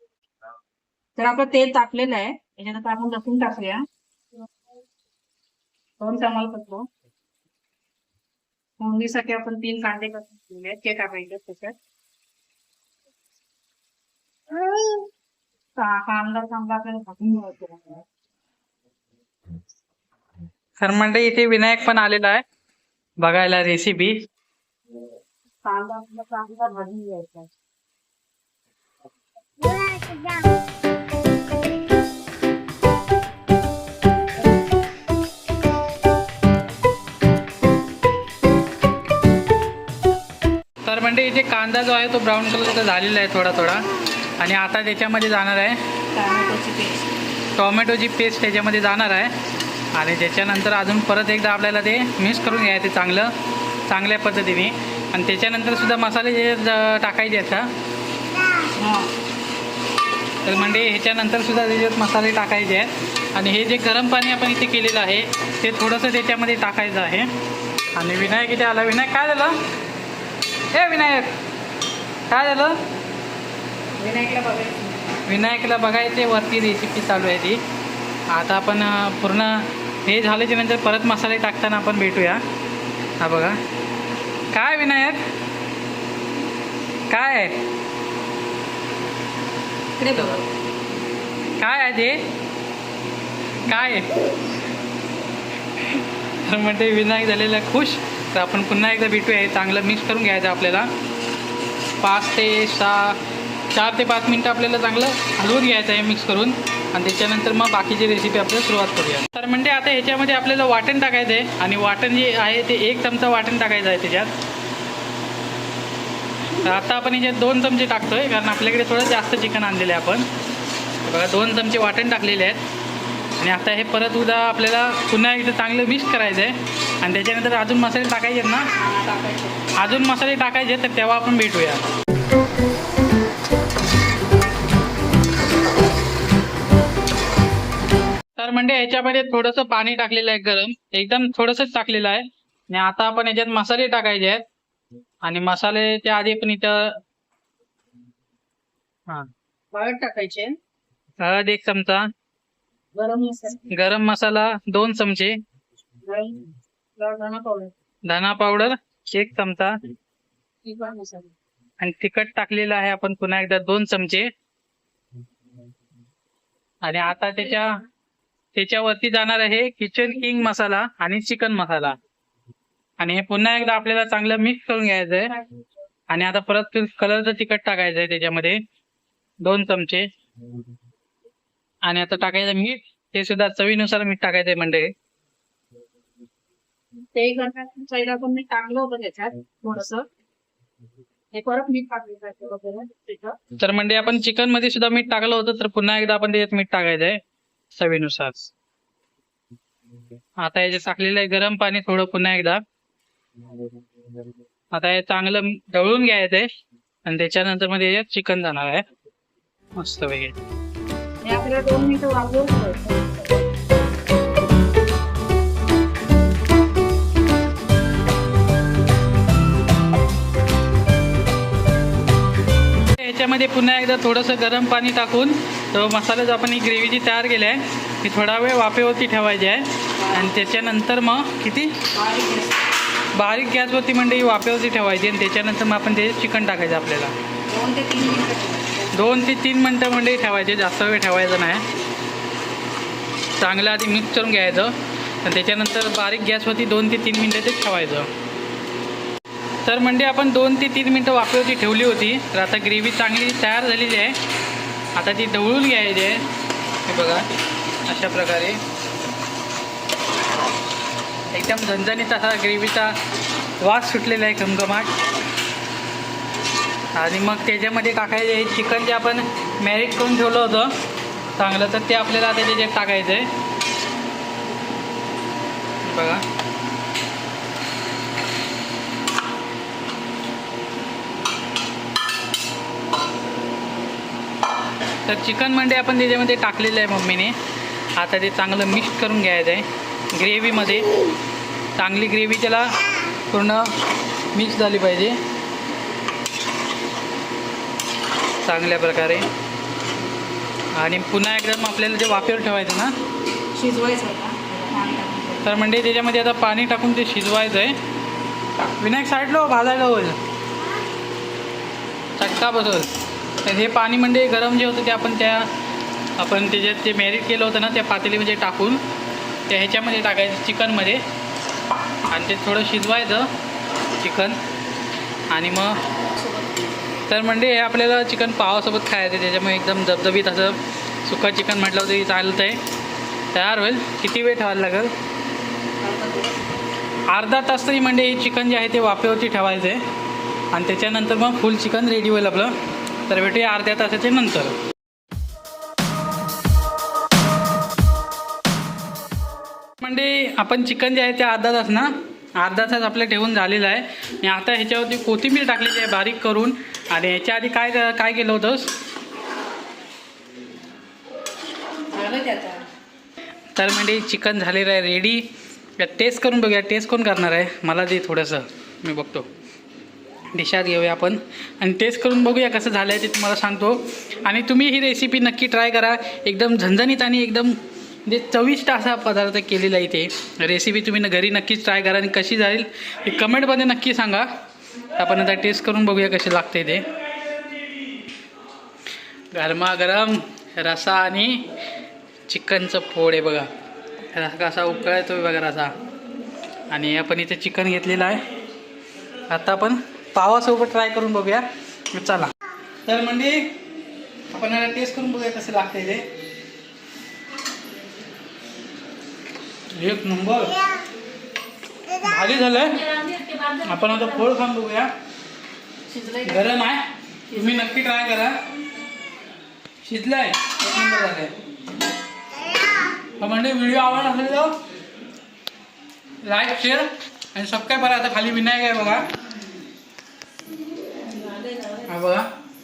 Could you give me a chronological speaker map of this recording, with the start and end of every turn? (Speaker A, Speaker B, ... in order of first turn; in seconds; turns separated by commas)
Speaker A: 1.2-3.8, Speaker A: 6.0-6.9, Speaker A: 8.8-11.8, Speaker A: 14.6-15.1, Speaker A: 15.8-18.0, Speaker B: 20.8-22.4, Speaker B: 23.2-24.3, Speaker A: 25.6-27.5, Speaker A: 29.8-30.2, Speaker B: 40.8-43.9, Speaker B: 44.4-45.8, Speaker A: 46.1-47.1, Speaker B: 47.6-49.3, Speaker B: 49.9-53.3, Speaker B: 53.9-57.7, Speaker A: 58.8-59.1, Speaker B: 60.4-67.3, Speaker B: 68.0-69.6, Speaker B: 70.7-71.3, Speaker B: 72.3-72.8, Speaker A: 74.0-74.8, Speaker B: 75.3-77.6, Speaker B: 78.3-82.4, Speaker B: 83.2-83.6, Speaker B: 84.5-85.2, Speaker B: 87.1-87.6, Speaker A: 90.0-90.4, Speaker B: 91.6-92.2, Speaker B: 93.7-94.1, Speaker B: 95.8-100.9, Speaker B: 102.0-103.2, Speaker B: 103.7-114.3, Speaker B: 116.6-120.3, Speaker B: 121.1-122.6, Speaker B: 123.4-128.7, Speaker A: 128.8-129.7, Speaker B: 129.7-131.9, Speaker B: 138.4-144.4, Speaker B: 145.2-147.0, Speaker A: 149.7-150.6, Speaker B: 151.2-152.1, Speaker A: 152.9-153.7, Speaker B: 153.7-155.4, Speaker A: 156.1-157.7, Speaker B: 158.1-159.8, Speaker A: 160.7-161.3, Speaker B: 161.8-164.3, Speaker B: 166.8-167.8, Speaker B: 168.6-172.0, Speaker B: 173.0-175.3, Speaker B: 176.1-178.6, Speaker B: 179.4-180.1, Speaker B: 181.8-184.9, Speaker A: 187.1-190.1, Speaker A: 191.3-193.4, Speaker B: 193.6-197.2, Speaker B: 197.8-198.5, Speaker B: 200.4-202.6, Speaker B: 204.7-206.5, Speaker B: 207.1-208.8, Speaker B: 209.8-210.3, Speaker A: 211.2-213.4, Speaker B: 223.0-231.8, Speaker A: 230.0-230.3, Speaker A: 231.9-232.6, Speaker B: 233.2-237.2, Speaker A: 237.5-238.9, Speaker B: 238.9-241.7, Speaker B: 243.4-248.1, Speaker B: 249.6-254.2, Speaker B: 255.0-256.2, Speaker B: 256.9-257.3, Speaker B: 257.9-258.6, Speaker B: 261.3-263.0, Speaker B: 263.6-264.9, Speaker B: 266.9-270.7, Speaker B: 271.4-273.3, Speaker B: 275.9-276.2, Speaker B: 285.1-287.4, Speaker B: 288.0-290.9, Speaker B: 291.8-292.7, Speaker B: 293.3-293.7, Speaker B: 294.3-295.2, Speaker B: 298.4-299.3, Speaker B: 300.7-302.9, Speaker A: 303.6-305.5, Speaker B: 305.4-307.8, Speaker B: 308.7-310.2, Speaker B: 312.2-312.9, Speaker B: 313.4-315.5, Speaker B: 316.2-318.8, Speaker B: 319.5-321.0, Speaker B: 322.1-323.3, Speaker B: 324.0-324.4, Speaker B: 325.3-325.8, Speaker B: 327.1-332.6, Speaker B: 333.3-334.9, Speaker A: 335.8-336.4, Speaker B: 337.1-339.8, Speaker B: 340.5-344.6, Speaker B: 349.8-358.7, Speaker A: 361.9-362.7, Speaker B: 363.6-369.3, Speaker B: 370.3-384.3, Speaker B: 385.0-386.8, Speaker B: 389.3-391.5, Speaker B: 392.3-393.5, Speaker B: 394.1-395.8, Speaker B: 396.7-398.3, Speaker B: 399.3-402.3, Speaker B: 402.9-403.6, Speaker B: 404.3-406.1, Speaker B: 409.8-410.6, Speaker B: 412.0-414.9, Speaker A: 415.9-416.5, Speaker B: 416.2-418.4, Speaker A: 417.3-417.7, Speaker B: 419.8-421.3, Speaker B: 423.2-424.6, Speaker B: 426.2-429.1, Speaker B: 431.7-432.3